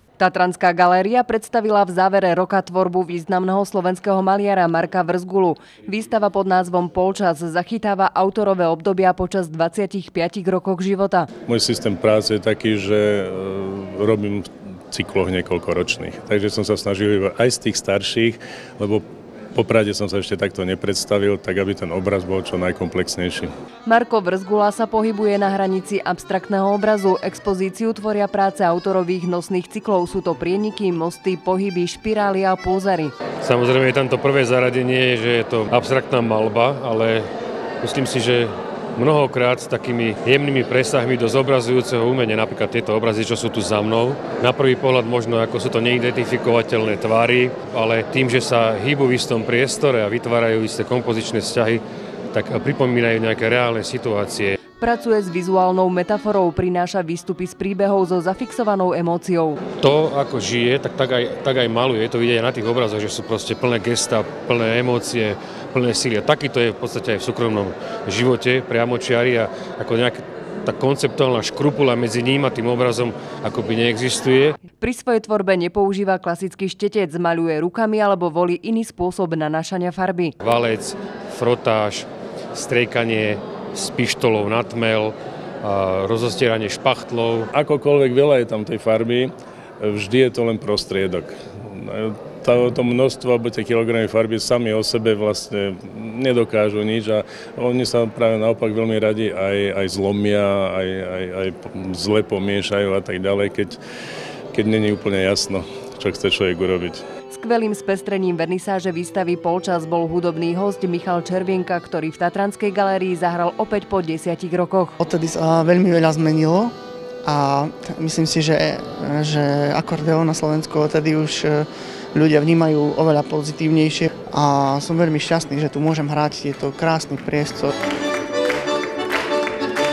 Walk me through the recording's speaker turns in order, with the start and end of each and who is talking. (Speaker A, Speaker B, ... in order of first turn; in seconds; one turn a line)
Speaker A: 0.2-11.3
Speaker B: 11.5-23.5
Speaker A: 23.9-33.1
Speaker C: 33.4-37.3
Speaker C: 37.8-54.5
Speaker A: 54.8-59.6
Speaker C: 59.8-74.6
Speaker A: 74.8-80.3
Speaker C: 80.4-87.5
Speaker B: 87.5-103.8
Speaker B: 104.5-107.0
Speaker A: 107.3-115.0
Speaker D: 115.0-116.7
Speaker D: 117.2-127.7